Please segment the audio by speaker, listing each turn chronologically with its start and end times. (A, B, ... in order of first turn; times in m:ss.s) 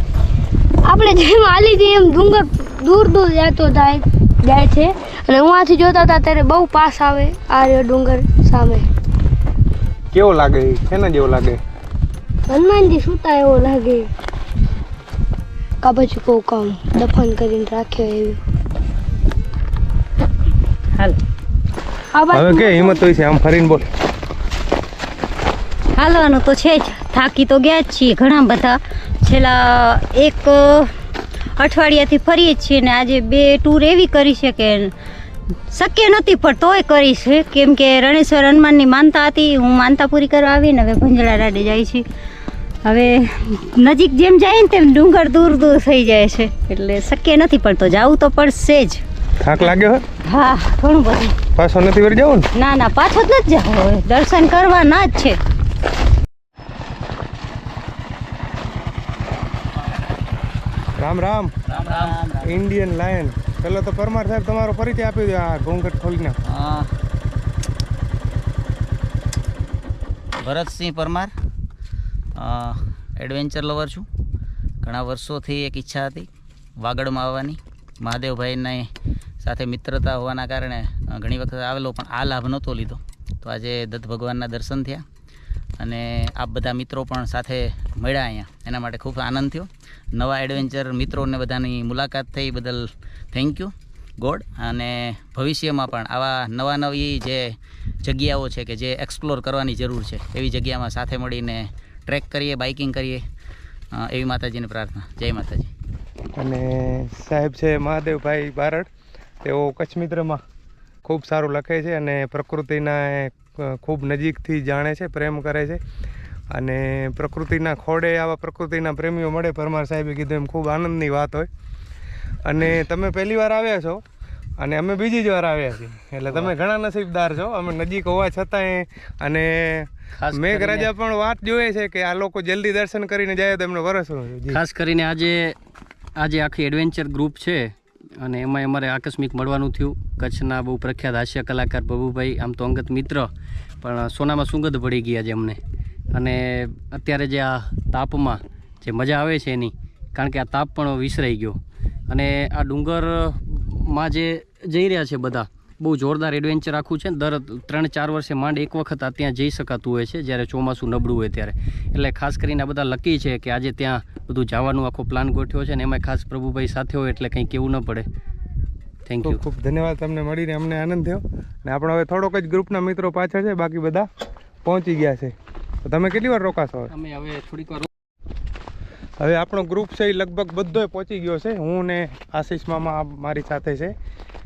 0:00.8-0:08.8 A
0:10.1-0:11.6 B
0:12.5-0:14.1 A
0:15.8-0:18.4 A
0:22.1-0:23.0 A
0:22.3-0:23.9 B
0:26.0-0:30.9 C
0:31.6-0:34.9 C
0:35.7-0:42.0 C
0:42.8-0:49.0 C
0:49.4-0:50.0 B
0:50.3-0:51.4 C
0:51.6-0:52.5 B
0:52.5-0:55.4 C
1:01.0-1:01.5 B
1:01.7-1:02.4 D
1:02.4-1:06.4 B
1:06.4-1:06.9 D
1:10.4-1:11.3 D
1:12.4-1:14.0 D
1:14.8-1:16.3 D
1:16.8-1:18.9 D
1:19.4-1:25.0 D
1:25.8-1:43.2 D
1:43.9-1:45.7 D
1:46.4-1:48.9 B
1:49.4-1:50.4 B
1:51.0-1:55.8 B
1:56.5-2:01.5 B
2:02.4-2:04.0 B
2:04.6-2:14.6 B
2:10.2-2:10.9 E
2:14.5-2:15.6 E
2:16.2-2:23.3 E
2:23.8-2:25.6 E
2:26.1-2:48.1 E
2:49.1-2:49.4 E
2:49.2-2:54.1 B
2:54.6-2:56.9 B
2:56.9-2:57.9 E
2:59.2-3:03.9 B